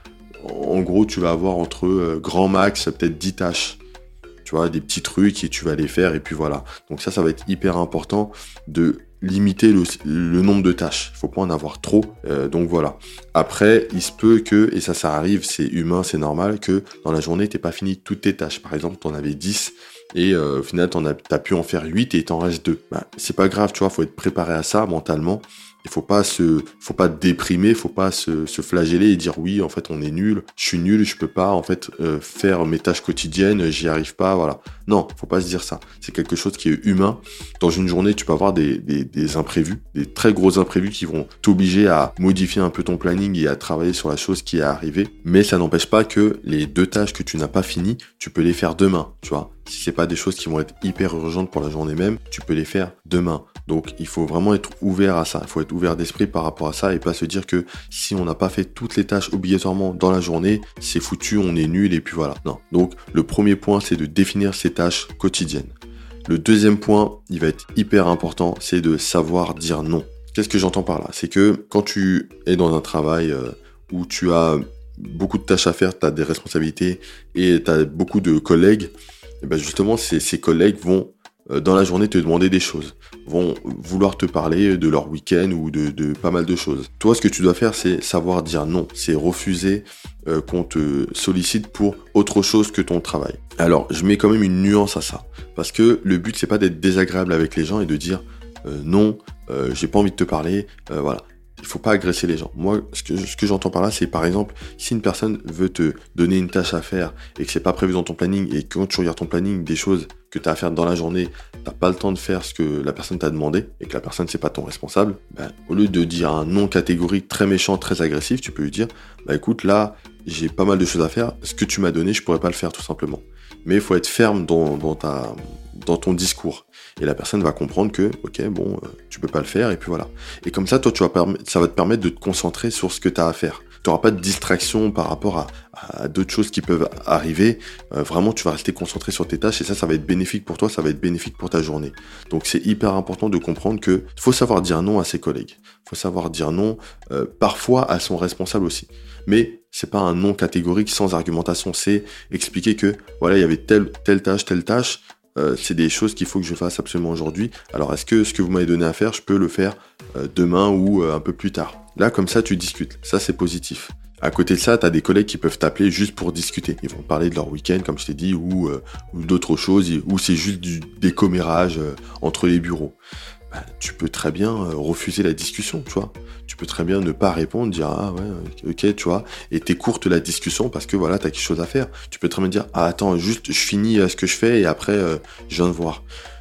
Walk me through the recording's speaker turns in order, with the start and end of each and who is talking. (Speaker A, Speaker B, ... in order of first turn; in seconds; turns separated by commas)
Speaker A: 0.4-3.8, Speaker A: 4.4-65.7, Speaker A: 66.3-172.9, Speaker A: 173.5-186.0